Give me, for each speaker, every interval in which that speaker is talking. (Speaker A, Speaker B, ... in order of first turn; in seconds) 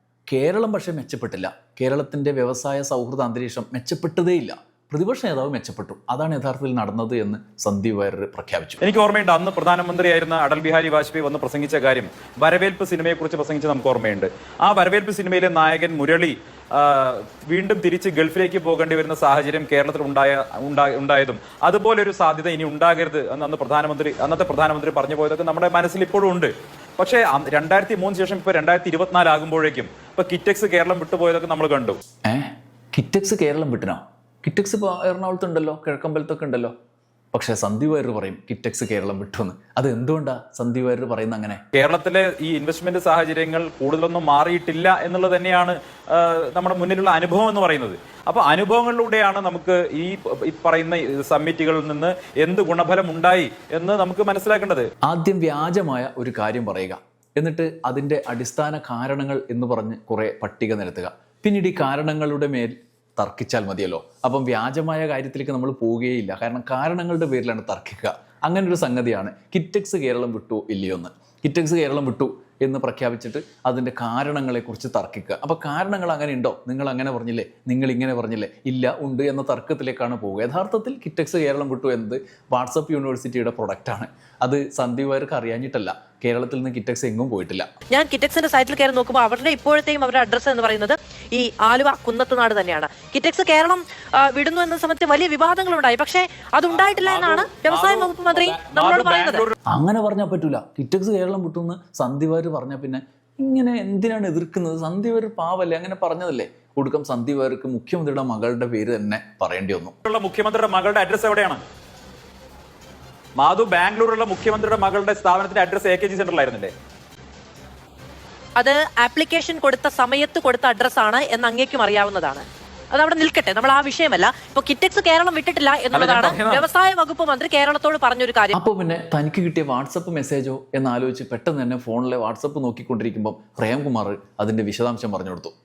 Speaker A: 0.3-8.8, 32.3-36.7, 37.3-41.6, 55.1-87.7, 99.7-109.9, 128.5-135.5
Speaker B: 8.8-32.0, 41.7-54.9, 96.7-99.5, 110.0-111.6, 113.4-116.7, 125.9-126.6
Speaker C: 87.9-99.4, 118.6-128.5